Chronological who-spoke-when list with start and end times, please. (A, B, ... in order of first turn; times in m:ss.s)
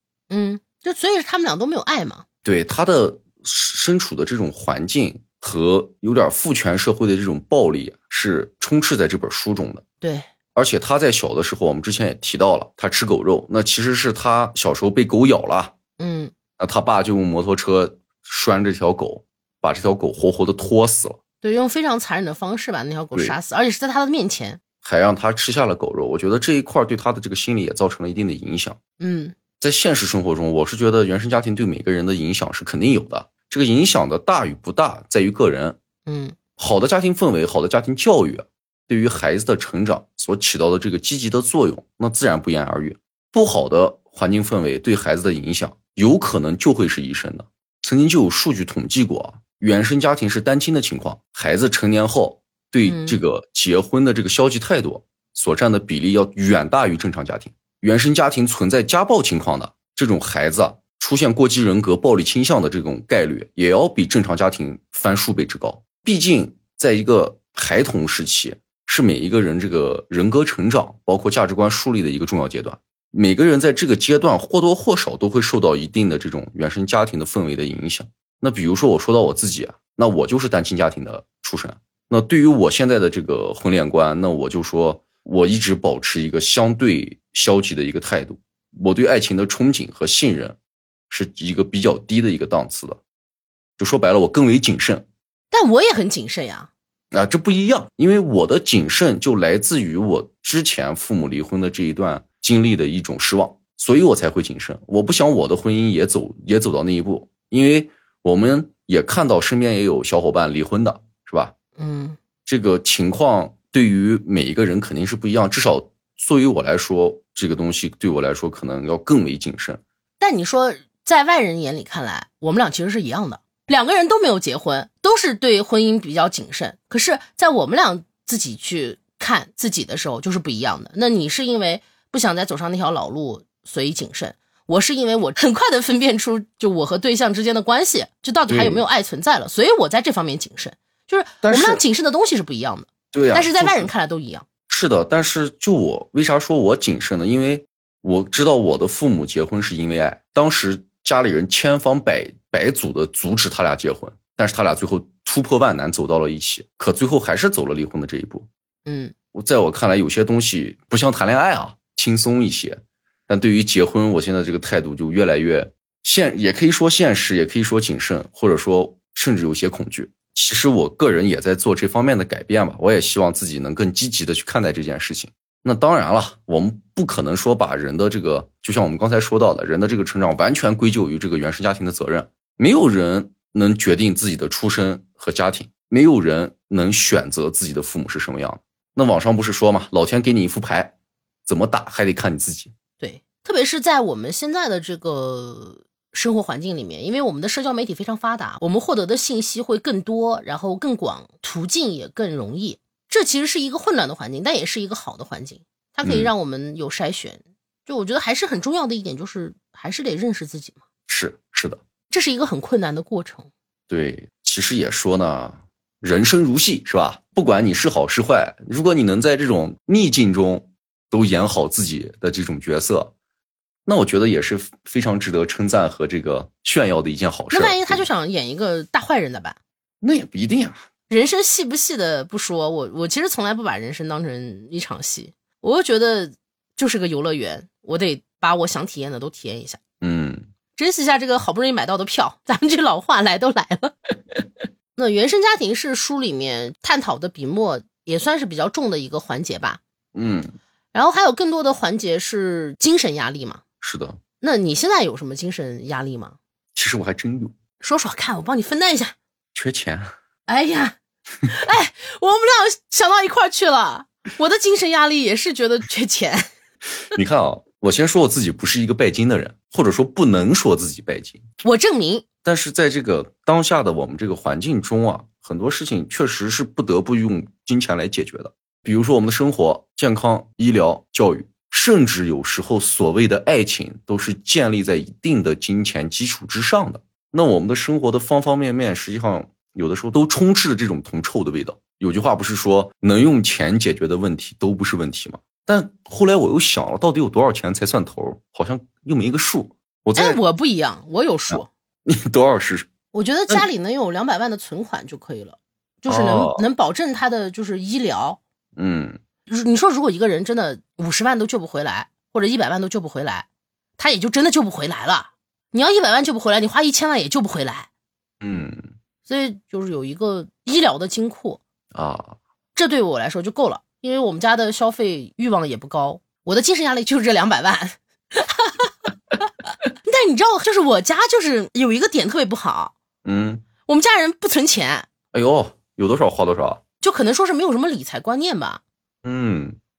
0:00.3-0:02.2 A
0:02.4-0:09.8 B
0:10.0-0:10.3 A
0:10.6-0:15.7 B
0:16.0-0:16.3 A
0:16.6-0:21.2 B
0:21.4-0:24.6 A
0:24.8-0:28.8 B
0:29.0-0:29.3 A
0:29.6-0:35.8 B
0:36.0-0:36.4 A
0:36.6-1:30.6 B
0:52.8-0:53.2 A
1:31.1-1:33.0 B
1:33.8-1:35.0 B
1:35.5-1:36.7 A
1:37.1-1:51.5 B
1:51.8-1:52.2 A
1:52.4-1:59.8 B
2:00.2-2:24.4 A
2:18.5-2:18.8 B
2:21.4-2:21.8 B
2:23.1-2:23.9 B
2:24.7-2:38.5 B
2:38.9-2:39.1 A
2:39.3-3:10.9 B
3:11.4-3:12.7 B
3:13.0-3:30.8 A
3:26.0-3:26.3 B
3:31.1-3:31.8 B
3:32.1-3:33.5 A
3:33.9-3:43.1 B
3:43.9-3:48.1 B
3:47.5-3:49.6 A
3:50.0-3:50.8 B
3:51.1-3:59.8 A
4:00.0-4:00.5 B
4:00.8-4:03.9 A
4:05.0-4:09.8 A
4:10.1-4:10.6 B
4:10.9-4:13.6 A
4:13.8-4:14.2 B
4:14.4-4:16.4 A
4:16.7-4:17.6 B
4:17.8-4:19.1 A
4:19.6-4:20.1 B
4:20.5-4:21.0 A
4:21.5-4:26.5 A
4:27.1-4:31.4 B
4:31.6-4:32.2 A
4:32.4-5:00.4 B
5:00.2-5:01.7 A
5:01.5-5:02.9 B
5:03.1-5:08.4 A
5:06.1-5:06.6 B
5:08.8-5:09.2 B
5:09.5-5:13.5 A
5:14.0-5:17.9 A
5:18.4-5:18.9 B
5:19.3-5:21.6 A
5:21.9-5:22.4 B
5:22.7-5:28.9 A
5:30.0-5:33.0 A
5:33.2-5:33.6 B
5:33.9-5:35.1 A
5:35.3-5:36.8 B
5:37.0-5:38.8 A
5:39.2-5:39.8 B